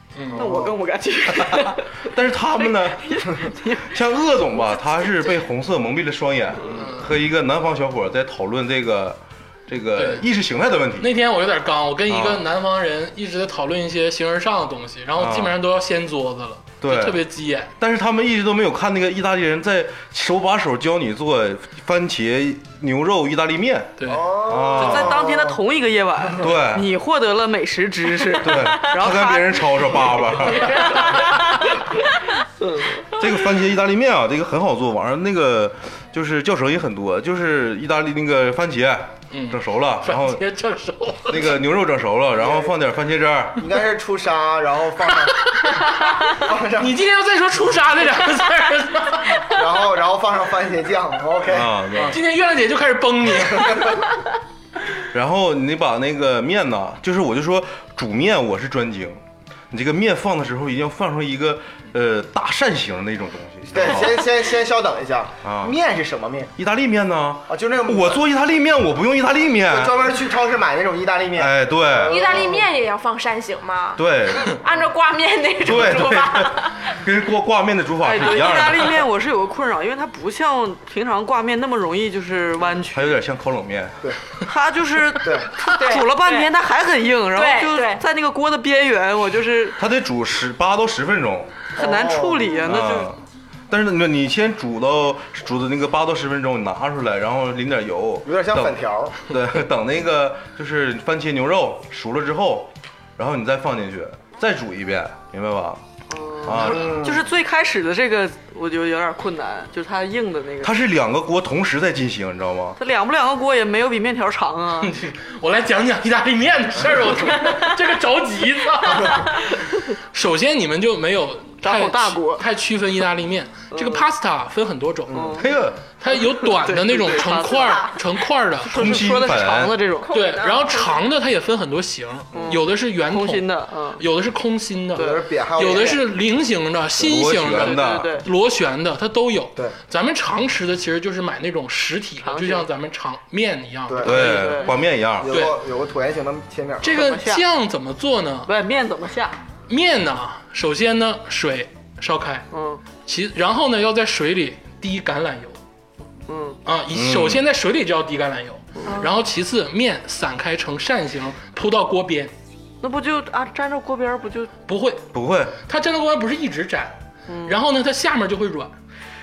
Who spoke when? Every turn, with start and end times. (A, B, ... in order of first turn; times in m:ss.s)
0:00.2-0:00.5 A
0:00.3-0:01.9 B
0:00.4-0:00.7 C
0:01.5-0:11.1 D
0:02.6-0:03.9 B
0:06.7-0:07.0 A
0:10.0-0:10.2 A
0:11.0-0:17.7 A
0:12.1-0:12.4 D
0:15.2-0:15.6 D
0:16.8-0:17.2 D
0:17.8-0:25.2 D
0:24.0-0:24.2 A
0:24.1-0:25.6 C
0:24.8-0:30.0 B
0:26.4-0:26.9 D
0:28.4-0:30.9 D
0:30.8-0:31.7 E
0:32.6-0:33.0 B
0:33.2-0:40.4 D
0:39.3-0:41.6 A
0:41.3-0:43.6 D
0:42.4-0:42.7 C
0:43.6-0:45.4 C
0:46.3-0:47.0 C
0:46.8-0:49.5 A
0:49.5-0:51.8 C
0:51.5-0:52.2 D
0:52.0-0:54.1 A
0:55.1-0:59.2 D
0:59.7-1:04.2 D
1:03.7-1:06.5 C
1:05.4-1:05.7 D
1:06.6-1:10.0 D
1:07.5-1:08.2 C
1:09.7-1:12.6 C
1:11.4-1:12.4 D
1:12.0-1:16.9 E
1:14.0-1:14.6 D
1:15.6-1:19.0 D
1:18.0-1:23.1 B
1:22.9-1:24.0 D
1:24.5-1:29.8 B
1:25.2-1:25.5 C
1:25.7-1:26.5 E
1:27.3-1:28.0 E
1:29.8-1:31.6 D
1:31.8-1:32.6 C
1:31.8-1:33.1 B
1:32.6-1:33.2 D
1:33.7-1:45.8 D
1:38.2-1:39.2 C
1:46.1-1:50.8 B
1:46.4-1:47.0 D
1:46.7-1:47.3 C
1:50.6-1:52.8 D
1:52.8-1:54.9 B
1:54.8-2:05.3 A
2:01.6-2:02.4 B
2:03.7-2:04.0 B
2:05.1-2:05.5 B
2:05.4-2:05.8 D
2:06.0-2:08.9 A
2:06.1-2:07.9 B
2:07.6-2:07.9 E
2:08.6-2:10.1 B
2:08.7-2:09.8 D
2:10.0-2:11.0 E
2:10.1-2:24.5 A
2:12.3-2:12.6 C
2:12.3-2:14.0 B
2:14.9-2:15.9 B
2:14.9-2:16.0 C
2:17.0-2:18.1 D
2:17.5-2:18.2 B
2:22.2-2:22.7 B
2:23.9-2:24.2 C
2:24.0-2:25.4 D
2:24.0-2:24.8 B
2:25.2-2:27.0 C
2:25.3-2:25.6 A
2:26.8-2:28.5 A
2:26.9-2:27.4 B
2:28.4-2:29.4 B
2:29.7-2:32.4 A
2:32.5-2:32.8 B
2:33.0-2:35.6 A
2:36.3-2:36.6 B
2:36.6-2:42.3 A
2:36.9-2:37.4 D
2:42.8-2:44.5 B
2:44.7-2:45.1 A
2:45.1-2:45.5 D
2:45.7-2:48.7 A
2:47.3-2:47.6 B